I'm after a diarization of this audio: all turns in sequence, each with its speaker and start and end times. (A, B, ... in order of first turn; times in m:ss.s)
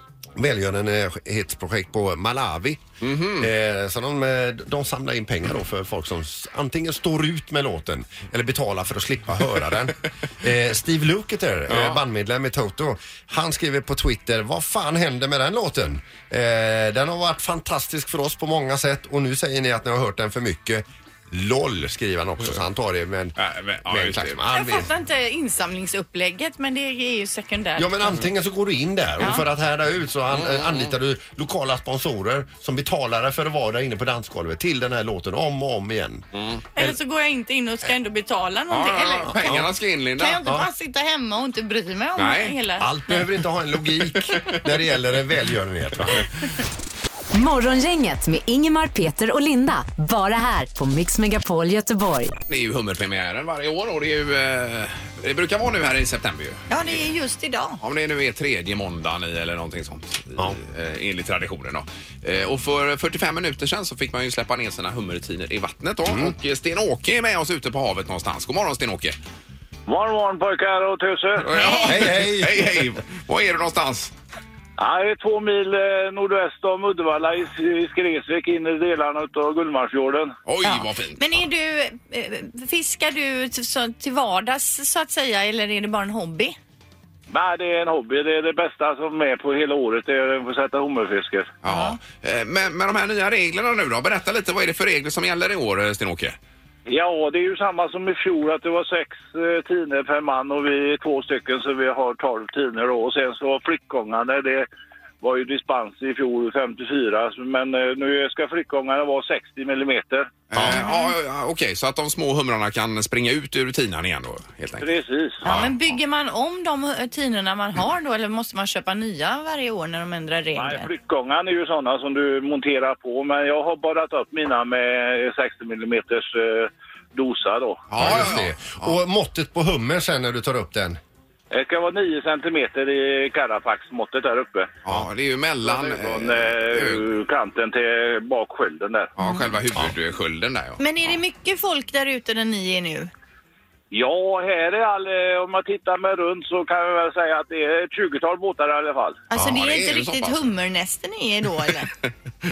0:00.4-0:02.8 A
0:03.0-0:03.5 B
0:03.4-0:24.9 A
0:11.7-0:12.0 B
0:23.4-0:24.4 B
0:24.5-0:28.2 C
0:27.8-0:36.3 A
0:30.3-0:30.9 B
0:36.4-0:36.7 B
0:36.8-0:39.4 C
0:38.7-0:40.4 B
0:39.3-0:39.7 A
0:40.2-0:42.9 C
0:42.2-0:42.6 B
0:42.8-0:46.3 A
0:44.4-0:44.6 B
0:47.3-0:52.4 D
0:52.5-0:57.0 B
0:56.7-0:57.8 C
0:57.8-1:09.2 B
1:06.1-1:06.4 A
1:09.9-1:11.5 E
1:11.4-1:14.1 B
1:11.6-1:12.0 C
1:11.9-1:12.7 A
1:14.8-1:20.3 E
1:20.5-1:21.2 B
1:20.6-1:26.6 C
1:27.3-1:31.5 E
1:31.6-1:36.4 B
1:31.7-1:32.0 C
1:36.9-1:44.7 E
1:45.2-1:50.3 E
1:50.5-1:54.9 B
1:50.6-1:50.8 A
1:50.6-1:51.2 C
1:54.8-1:55.4 E
1:55.4-1:55.7 B
1:55.4-2:00.9 C
2:00.6-2:07.9 E
2:07.9-2:09.0 B
2:08.0-2:11.0 A
2:11.5-2:14.7 E
2:14.8-2:17.0 B
2:15.6-2:19.1 E
2:19.2-2:20.8 B
2:19.2-2:19.5 C
2:20.8-2:23.1 C
2:23.9-2:29.2 E
2:29.3-2:31.9 C
2:29.4-2:30.5 B